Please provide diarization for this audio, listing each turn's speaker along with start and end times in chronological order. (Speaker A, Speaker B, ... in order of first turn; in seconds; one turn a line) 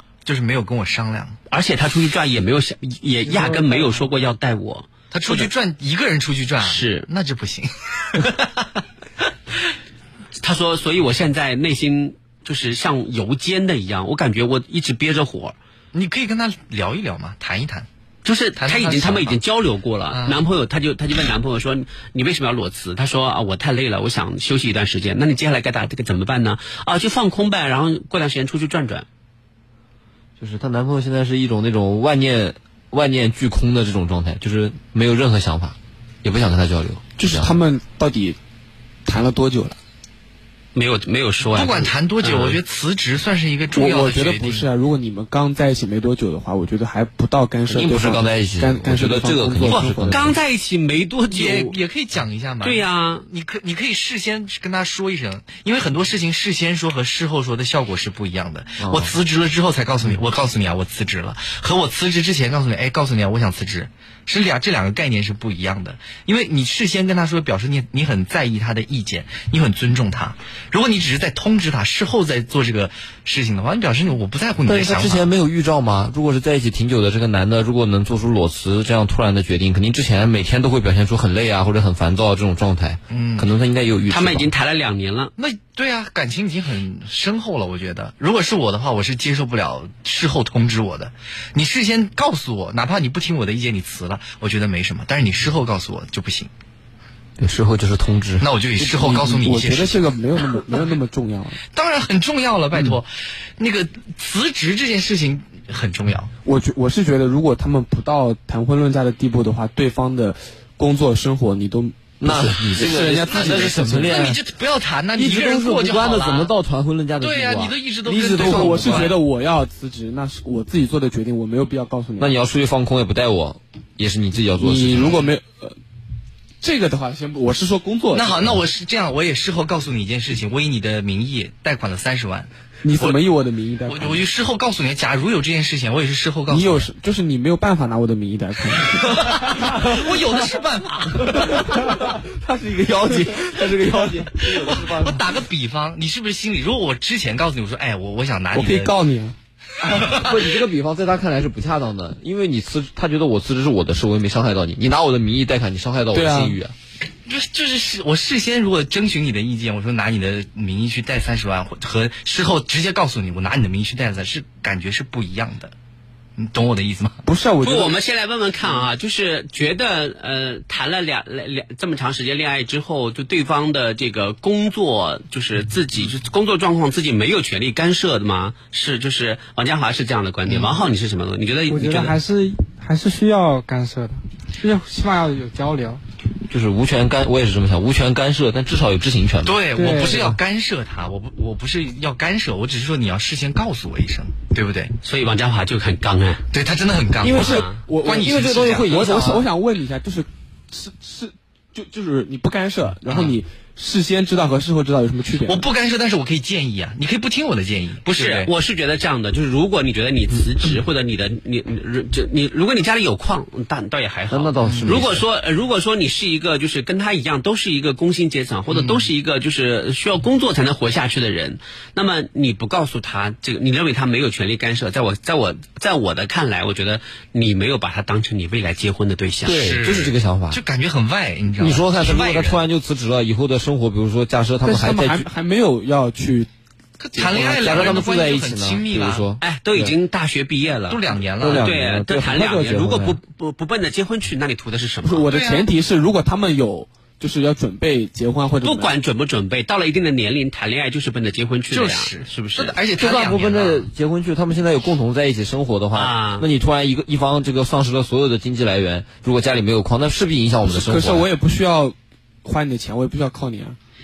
Speaker A: 0.2-1.4
Speaker B: 1.5-5.5
Speaker A: 5.1-8.7
Speaker B: 6.6-7.1
Speaker B: 10.4-15.6
Speaker A: 15.9-17.9
Speaker B: 18.2-29.1
Speaker A: 18.6-19.4
Speaker A: 20.1-20.4
Speaker C: 30.4-37.5
Speaker D: 37.2-38.4
Speaker D: 39.0-39.8
Speaker B: 40.7-42.6
Speaker A: 41.5-44.7
Speaker D: 43.7-50.3
Speaker C: 47.7-50.3
Speaker B: 49.7-51.8
Speaker A: 51.3-75.3
Speaker B: 52.6-53.2
Speaker C: 58.8-59.1
Speaker C: 74.6-84.5
Speaker A: 83.1-83.5
Speaker B: 84.1-85.3
Speaker A: 85.4-96.5
Speaker C: 97.4-98.5
Speaker A: 98.4-100.1
Speaker D: 98.8-101.6
Speaker A: 101.7-106.3
Speaker D: 106.4-114.3
Speaker C: 112.2-114.4
Speaker A: 112.8-116.5
Speaker C: 115.2-119.1
Speaker A: 117.2-119.2
Speaker D: 118.0-122.3
Speaker C: 122.2-125.2
Speaker D: 124.6-125.8
Speaker D: 126.6-128.5
Speaker A: 128.1-133.2
Speaker D: 132.8-134.2
Speaker A: 133.8-136.9
Speaker D: 136.5-139.9
Speaker A: 139.1-141.9
Speaker D: 141.6-142.1
Speaker C: 142.1-145.2
Speaker D: 143.1-144.2
Speaker A: 144.5-148.9
Speaker D: 148.5-149.3
Speaker A: 149.9-150.3
Speaker C: 149.9-156.7
Speaker D: 156.1-156.6
Speaker A: 157.2-165.7
Speaker A: 166.3-167.2
Speaker D: 167.2-168.0
Speaker B: 167.6-182.2
Speaker A: 180.5-180.8
Speaker E: 181.7-186.0
Speaker C: 186.5-190.3
Speaker A: 189.4-194.9
Speaker E: 189.7-190.2
Speaker B: 195.0-196.4
Speaker A: 196.5-199.4
Speaker D: 197.2-205.7
Speaker B: 197.3-197.8
Speaker C: 198.1-199.4
Speaker A: 203.1-203.3
Speaker A: 205.4-208.5
Speaker B: 208.1-229.6
Speaker C: 214.3-215.2
Speaker A: 214.6-215.0
Speaker A: 218.7-219.1
Speaker C: 229.4-230.6
Speaker A: 229.4-232.6
Speaker C: 231.6-235.3
Speaker D: 234.6-236.5
Speaker A: 237.0-239.3
Speaker D: 237.2-237.8
Speaker C: 237.5-239.9
Speaker B: 239.4-245.3
Speaker A: 240.9-241.7
Speaker C: 241.4-243.2
Speaker D: 245.0-248.9
Speaker A: 245.3-245.7
Speaker B: 248.6-252.8
Speaker A: 251.7-253.9
Speaker C: 253.0-261.2
Speaker B: 255.9-256.5
Speaker D: 260.7-263.8